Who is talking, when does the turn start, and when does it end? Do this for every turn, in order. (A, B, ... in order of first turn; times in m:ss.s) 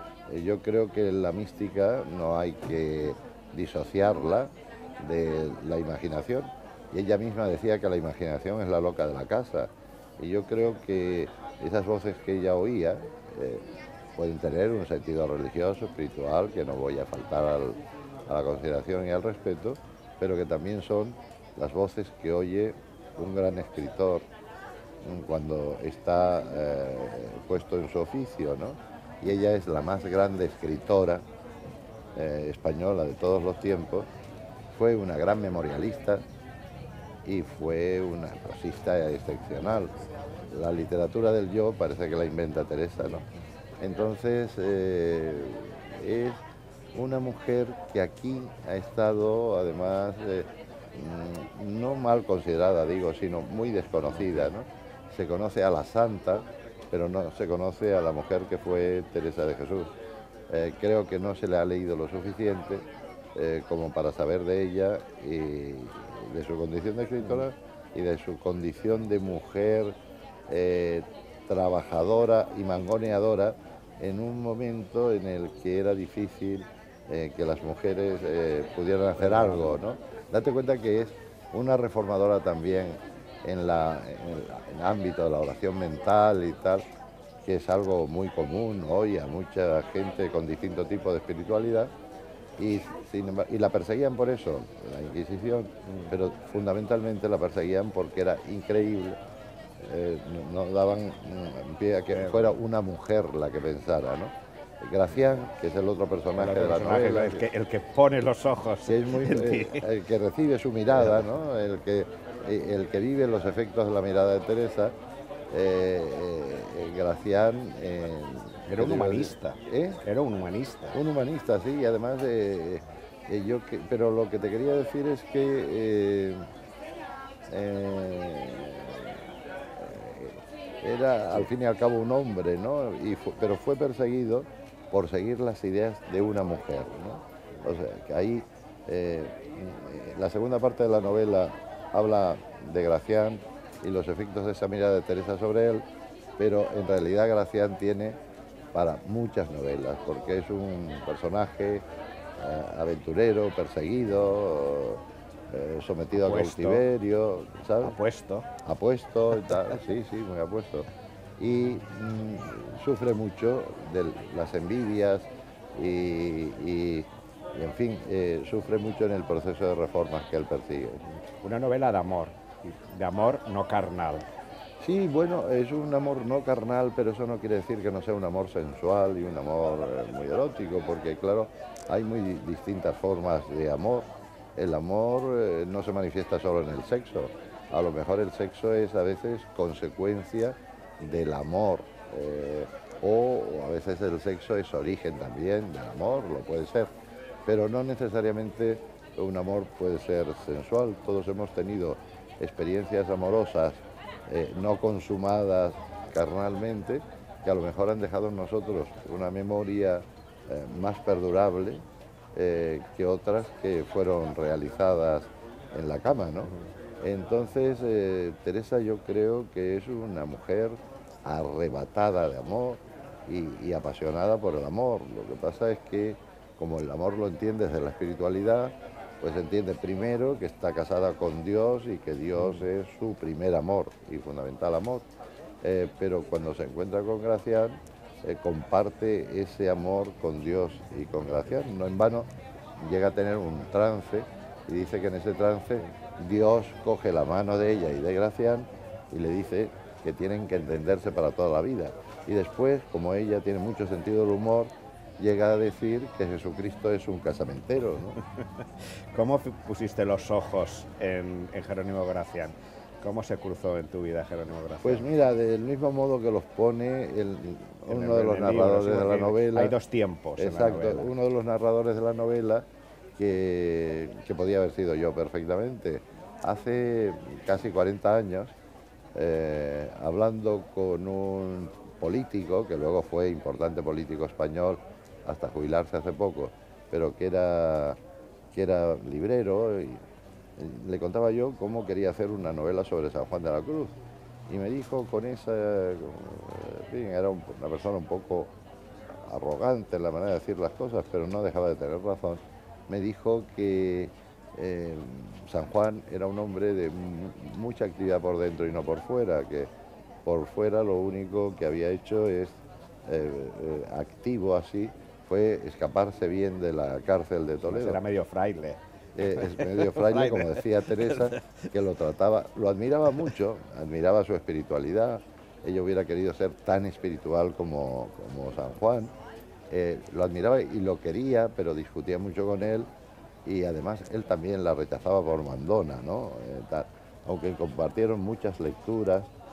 0:00.3-0:24.3 A
0:25.0-0:31.2 A
0:32.2-0:34.1 A
0:34.7-0:36.2 A
0:37.2-0:39.9 A
0:40.5-0:43.2 A
0:43.8-0:46.4 A
0:46.9-0:59.9 A
0:54.1-0:54.5 B
1:00.5-1:09.9 A
1:10.5-1:26.8 A
1:27.4-1:31.9 A
1:32.6-1:39.2 A
1:39.8-1:47.5 A
1:42.1-1:42.6 B
1:46.4-1:49.9 B
1:48.9-1:54.9 A
1:50.9-1:51.3 B
1:55.5-2:00.0 A
1:58.7-2:01.0 B
2:00.9-2:06.4 A
2:07.5-2:25.8 A
2:26.4-2:28.2 A
2:28.7-2:31.8 A
2:32.4-2:38.0 A
2:36.1-2:36.8 B
2:37.8-2:38.5 B
2:38.6-2:40.9 A
2:41.4-2:51.0 A
2:51.4-2:54.3 B
2:54.8-3:16.9 A
3:17.5-3:31.8 A
3:32.4-3:55.1 A
3:52.4-3:52.7 B
3:55.6-4:18.2 A
4:19.1-4:25.1 B
4:24.8-4:29.8 A
4:27.9-4:31.1 B
4:30.4-4:32.6 A
4:33.2-4:38.6 A
4:39.2-4:48.0 A
4:48.5-4:50.0 A
4:50.6-4:54.0 A
4:54.5-4:58.5 A
4:59.1-5:09.7 A
5:10.2-5:18.0 A
5:17.7-5:21.2 B
5:19.2-5:29.1 A
5:29.7-5:32.9 A
5:33.4-5:39.3 A